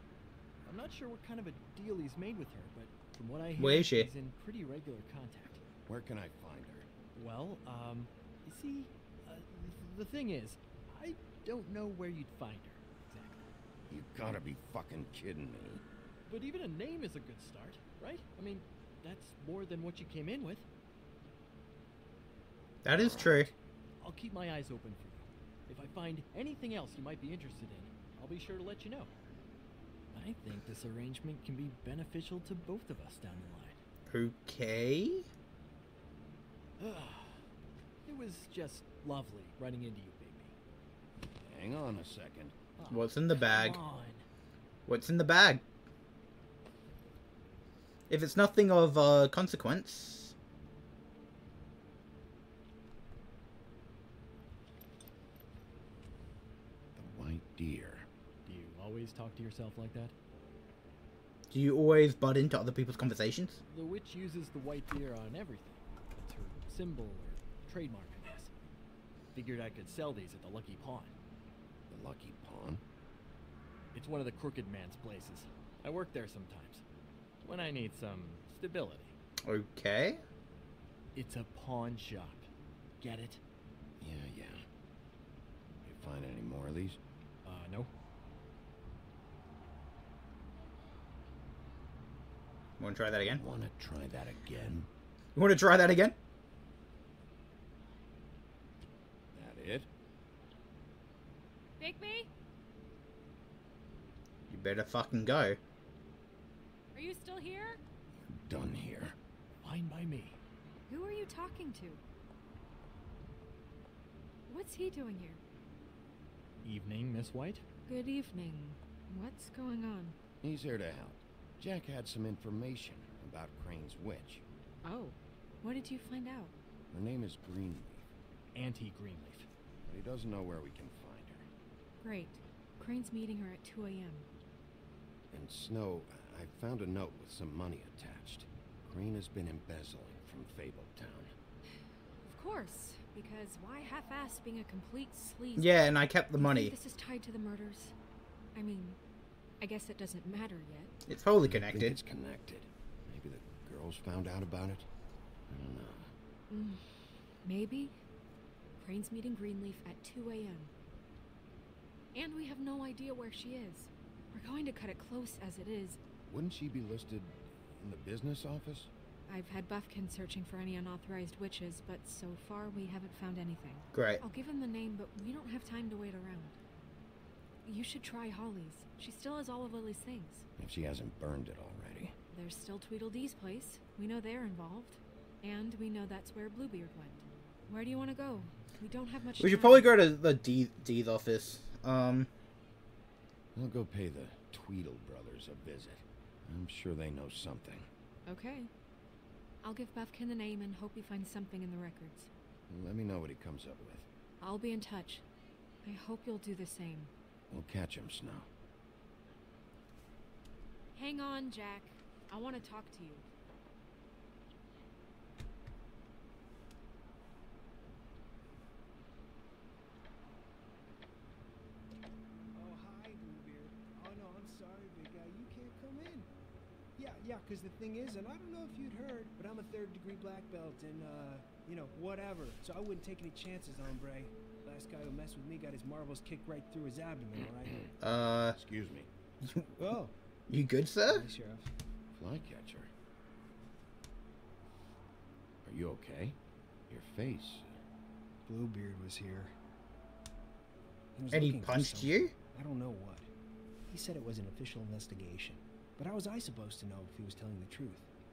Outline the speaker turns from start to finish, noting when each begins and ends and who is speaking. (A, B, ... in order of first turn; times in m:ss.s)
0:00.6-0:05.6 A
0:03.6-0:04.1 B
0:05.9-0:06.9 C
0:07.1-0:13.5 A
0:13.9-0:15.8 C
0:16.3-0:20.6 A
0:22.8-0:23.5 B
0:23.0-0:23.5 C
0:24.0-0:29.1 A
0:30.1-0:33.8 A
0:34.1-0:35.3 B
0:36.8-0:37.4 A
0:38.1-0:40.6 A
0:41.4-0:42.6 C
0:42.8-0:44.3 A
0:42.9-0:43.8 B
0:44.9-0:45.6 B
0:48.1-0:50.4 B
0:57.0-0:58.1 C
0:58.5-1:00.1 A
1:01.5-1:03.6 B
1:03.7-1:08.5 A
1:09.3-1:11.1 A
1:11.9-1:12.8 C
1:13.9-1:16.8 A
1:17.4-1:19.2 A
1:19.4-1:20.2 B
1:21.2-1:22.5 A
1:23.0-1:23.4 A
1:24.0-1:24.6 C
1:25.8-1:27.0 C
1:27.4-1:27.9 A
1:32.8-1:33.4 B
1:33.4-1:34.9 C
1:35.4-1:36.2 B
1:39.3-1:39.9 C
1:41.8-1:42.3 D
1:44.5-1:45.6 B
1:46.9-1:47.8 D
1:48.3-1:49.2 C
1:49.6-1:50.4 A
1:50.9-1:52.0 D
1:54.5-1:55.4 D
1:56.6-1:57.6 A
1:57.9-2:00.2 D
2:00.4-2:04.4 C
2:04.8-2:06.5 D
2:06.9-2:08.1 C
2:08.5-2:09.5 A
2:09.9-2:11.5 C
2:12.0-2:14.3 D
2:15.3-2:21.3 C
2:22.2-2:28.0 D
2:25.6-2:26.8 B
2:28.6-2:29.0 D
2:29.6-2:30.9 D
2:31.1-2:32.0 B
2:31.4-2:34.9 C
2:35.5-2:36.1 C
2:36.5-2:38.0 D
2:38.8-2:40.7 D
2:42.1-2:46.0 D
2:46.3-2:48.9 C
2:49.3-2:56.6 D
2:53.9-2:54.2 B
2:57.6-3:00.5 D
3:00.6-3:02.2 C
3:02.3-3:09.9 D
3:09.4-3:12.3 B
3:13.6-3:17.9 C
3:18.3-3:18.7 D
3:19.6-3:22.3 D
3:22.7-3:24.1 C
3:24.4-3:25.2 D
3:25.8-3:27.1 D
3:27.5-3:28.5 C
3:31.0-3:33.3 D
3:42.5-3:46.3 E
3:47.0-3:57.9 E
3:58.0-3:58.6 B
3:58.5-3:59.1 C
3:59.4-3:59.7 B
3:59.8-4:00.1 E
4:00.5-4:01.3 B
4:01.0-4:01.7 E
4:02.1-4:02.9 C
4:05.6-4:06.4 C
4:06.9-4:07.8 C
4:08.4-4:09.5 E
4:11.2-4:13.3 E
4:11.3-4:12.3 B
4:13.9-4:18.1 E